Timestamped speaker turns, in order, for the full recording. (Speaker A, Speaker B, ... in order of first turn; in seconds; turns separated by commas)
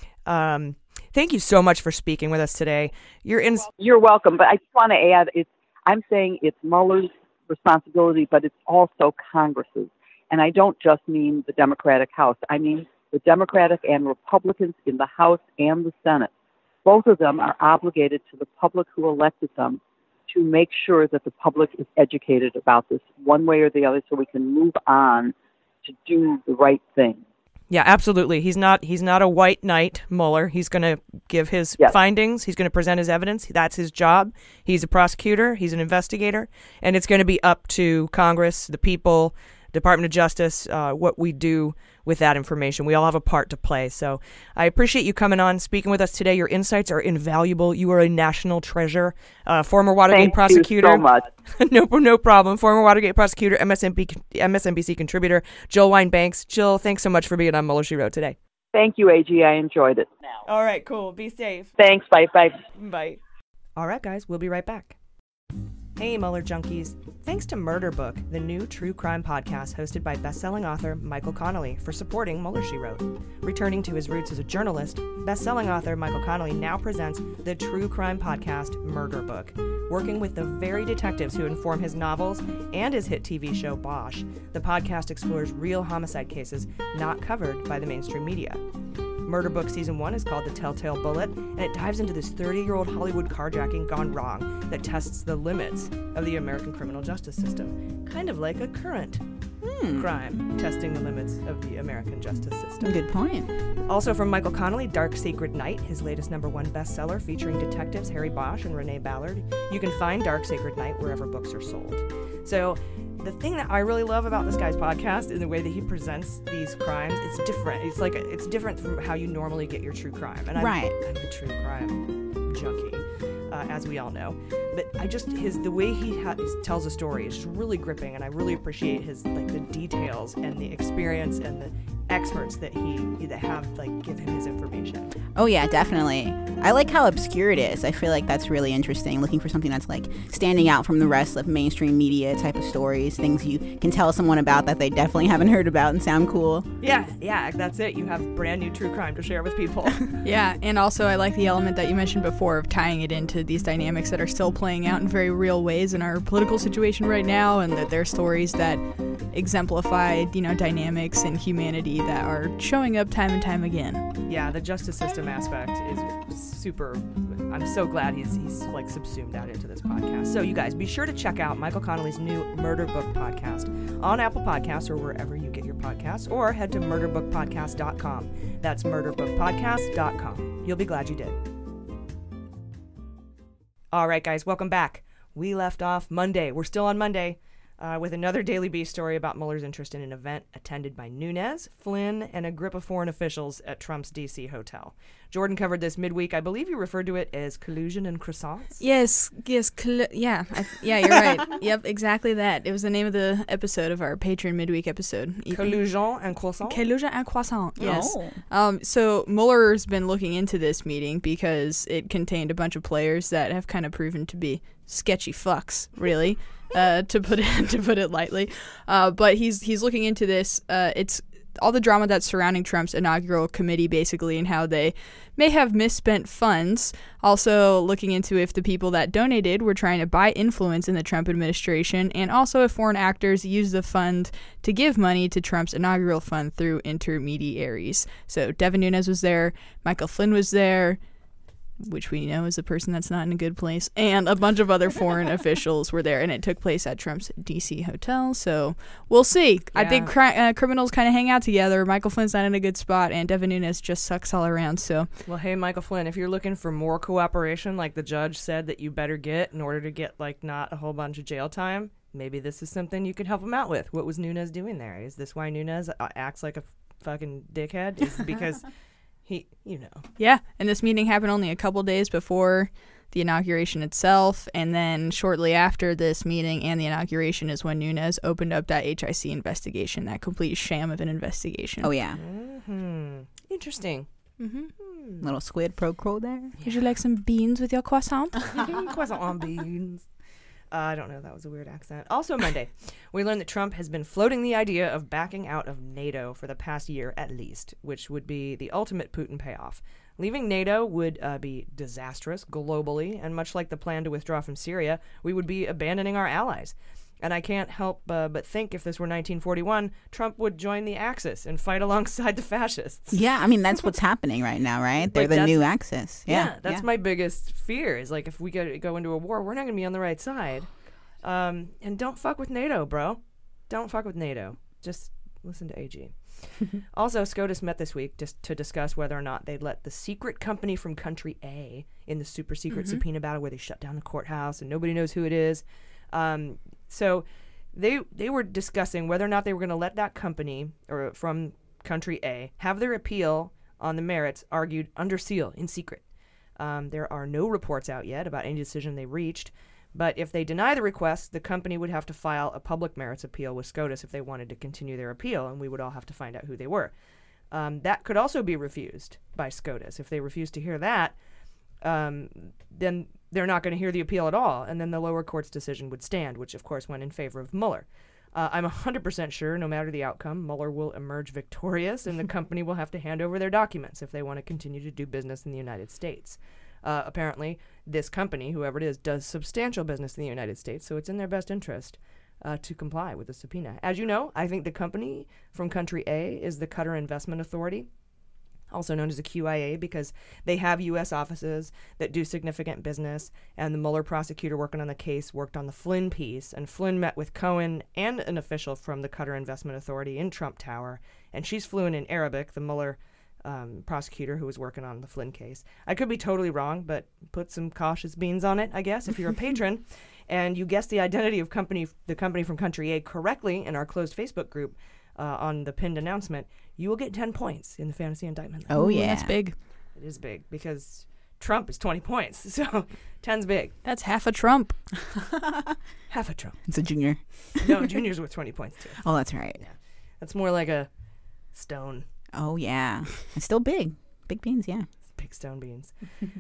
Speaker A: 0.3-3.7, Speaker B: 3.8-16.3, Speaker B: 16.9-25.3, Speaker B: 25.9-27.2, Speaker A: 27.7-51.0, Speaker B: 50.1-51.3, Speaker A: 51.6-58.4, Speaker B: 58.7-60.1, Speaker A: 60.5-61.7, Speaker B: 61.8-62.6, Speaker A: 62.8-63.2, Speaker A: 63.8-65.0, Speaker A: 66.0-88.6, Speaker A: 89.3-99.2, Speaker C: 99.6-100.1, Speaker A: 99.9-102.9, Speaker C: 102.8-103.5, Speaker A: 103.9-135.1, Speaker C: 120.6-120.9, Speaker C: 135.3-146.7, Speaker A: 146.8-150.0, Speaker D: 150.2-164.1, Speaker A: 164.3-181.4, Speaker A: 183.9-198.8, Speaker D: 198.8-205.8, Speaker A: 205.5-206.8, Speaker D: 206.7-241.0, Speaker C: 207.8-208.4, Speaker D: 241.8-255.1, Speaker A: 249.8-250.1, Speaker A: 255.3-268.6, Speaker A: 269.2-270.0, Speaker D: 270.2-281.9, Speaker C: 281.8-282.2, Speaker A: 282.1-284.1, Speaker D: 284.4-284.7, Speaker A: 284.8-285.3, Speaker C: 285.2-286.5, Speaker D: 286.6-288.5, Speaker A: 288.5-290.1, Speaker A: 290.7-313.2, Speaker C: 313.1-316.8, Speaker A: 315.1-315.6, Speaker A: 316.3-346.0, Speaker D: 332.7-333.0, Speaker A: 346.6-356.9, Speaker A: 357.5-361.1, Speaker A: 361.8-387.9, Speaker A: 388.7-418.7, Speaker C: 418.7-419.4, Speaker D: 418.8-419.6, Speaker A: 419.9-423.8, Speaker D: 423.8-424.8, Speaker A: 426.1-426.6, Speaker C: 426.7-427.8, Speaker A: 427.6-429.0, Speaker C: 429.0-429.6, Speaker A: 429.6-430.9, Speaker A: 431.5-432.1, Speaker C: 432.3-434.9, Speaker A: 435.1-435.9